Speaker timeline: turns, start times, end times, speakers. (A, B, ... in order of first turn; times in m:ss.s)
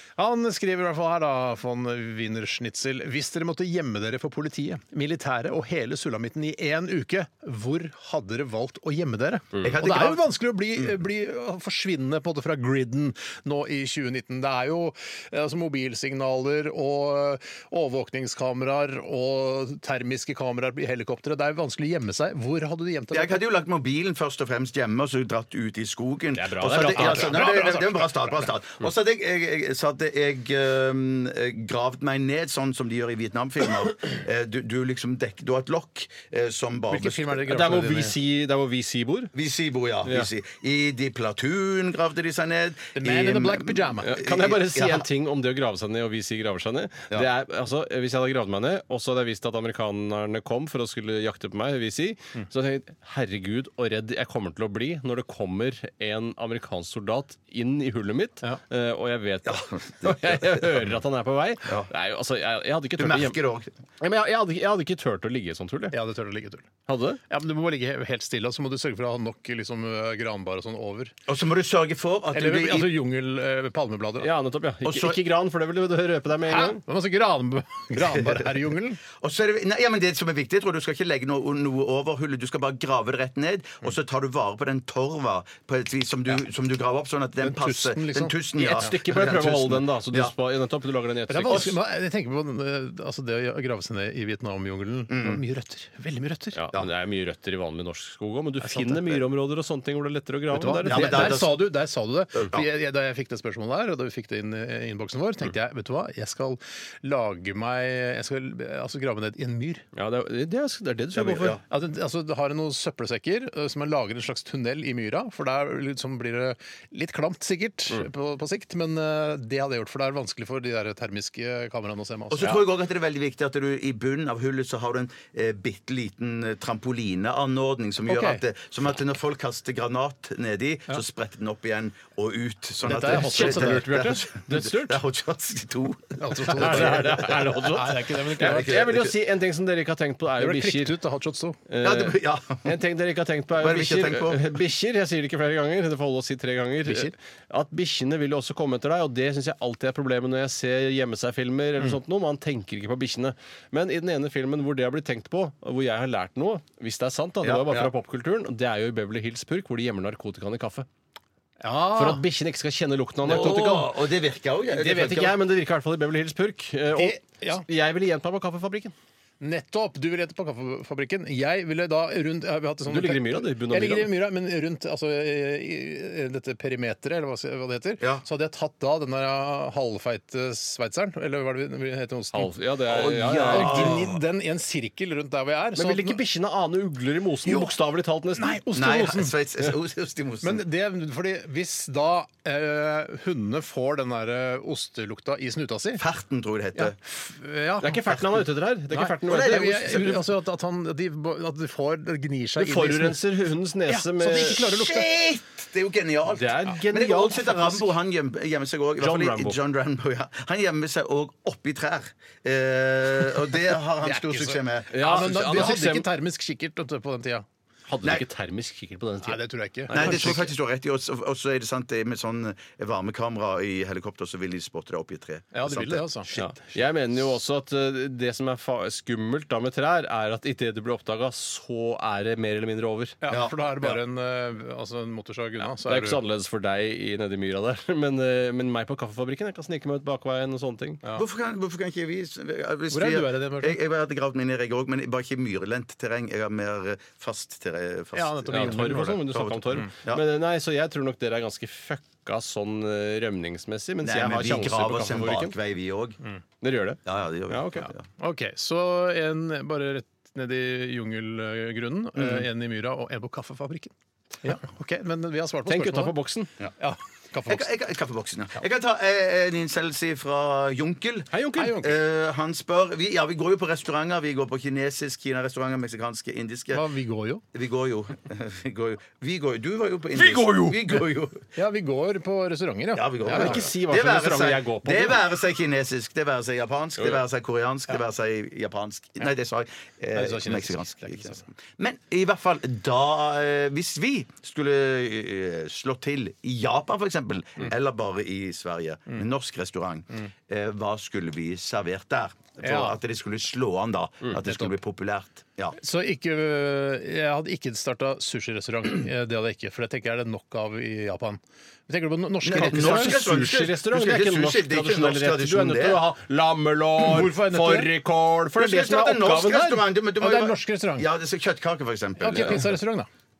0:00.2-0:23.4 A
0:09.6-0:10.2 B
0:23.1-0:37.5 B
0:26.3-0:27.4 C
0:26.6-0:28.4 A
0:36.9-0:38.1 A
0:37.5-0:39.3 C
0:39.3-0:45.1 B
0:40.0-0:40.3 C
0:42.9-0:44.2 A
0:44.0-1:03.4 C
0:59.4-1:00.8 B
1:03.0-1:03.7 B
1:04.0-1:06.0 C
1:05.9-1:06.7 A
1:06.9-1:07.2 C
1:07.3-1:11.1 A
1:11.3-1:13.0 B
1:12.3-1:14.3 A
1:14.2-1:16.8 C
1:14.8-1:15.2 B
1:16.5-1:19.0 A
1:18.1-1:18.5 B
1:19.0-1:30.3 B
1:27.4-1:28.9 A
1:28.6-1:31.7 C
1:31.3-1:36.6 A
1:31.5-1:31.7 B
1:35.1-1:35.4 B
1:36.5-1:41.3 C
1:38.6-1:39.1 A
1:40.5-1:49.8 A
1:40.8-1:41.6 B
1:42.4-1:42.6 B
1:49.9-1:51.6 C
1:51.1-1:51.6 B
1:51.7-2:02.6 A
2:02.3-2:17.6 B
2:08.1-2:08.4 A
2:12.8-2:13.8 A
2:12.9-2:15.0 C
2:16.2-2:18.8 A
2:16.5-2:21.0 C
2:18.4-2:19.1 B
2:20.4-2:21.6 A
2:21.7-2:40.9 C
2:21.8-2:22.7 B
2:23.6-2:24.6 B
2:26.8-2:27.1 A
2:37.4-2:37.9 B
2:41.6-2:42.2 A
2:41.9-2:43.9 C
2:43.2-2:45.4 B
2:44.7-2:48.9 C
2:46.9-2:47.6 A
2:49.4-3:02.5 A
2:52.9-2:54.1 C
3:02.3-3:04.0 C
3:02.9-3:04.2 B
3:03.4-3:06.2 A
3:05.8-3:08.6 C
3:08.4-3:09.4 A
3:08.7-3:10.6 B
3:10.4-3:16.0 A
3:16.0-3:17.0 B
3:16.7-3:18.0 A
3:17.8-3:20.2 C
3:18.1-3:18.4 B
3:18.9-3:23.3 A
3:19.2-3:20.2 B
3:22.6-3:24.6 C
3:23.9-3:25.1 A
3:24.5-3:35.7 B
3:26.3-3:27.9 C
3:29.0-3:29.6 C
3:34.0-3:37.4 A
3:34.9-3:36.1 C
3:37.9-3:40.5 C
3:39.2-3:40.4 A
3:39.9-3:46.5 B
3:45.5-3:46.3 A
3:46.3-3:53.2 C
3:53.2-3:56.2 A
3:53.3-3:53.5 B
3:55.6-4:01.0 C
4:01.1-4:10.2 B
4:02.9-4:03.8 A
4:08.1-4:09.3 A
4:08.5-4:15.6 C
4:14.0-4:16.2 B
4:16.6-4:17.9 C
4:17.0-4:18.0 B
4:17.8-4:26.1 A
4:22.2-4:22.4 B
4:25.7-4:26.5 C
4:26.8-4:27.7 A
4:27.5-4:36.8 B
4:31.3-4:31.8 C
4:31.6-4:32.0 A
4:36.7-4:37.4 A
4:37.5-4:41.5 B
4:40.1-4:40.9 C
4:41.5-4:43.7 A
4:42.9-5:05.8 B
4:43.2-4:45.2 C
4:50.1-4:51.4 A
5:02.6-5:03.0 A
5:04.4-5:04.8 A
5:05.8-5:13.2 A
5:12.4-5:16.0 B
5:12.5-5:19.8 C
5:17.0-5:17.9 A
5:18.5-5:22.7 B
5:20.2-5:21.1 A
5:22.2-5:23.1 A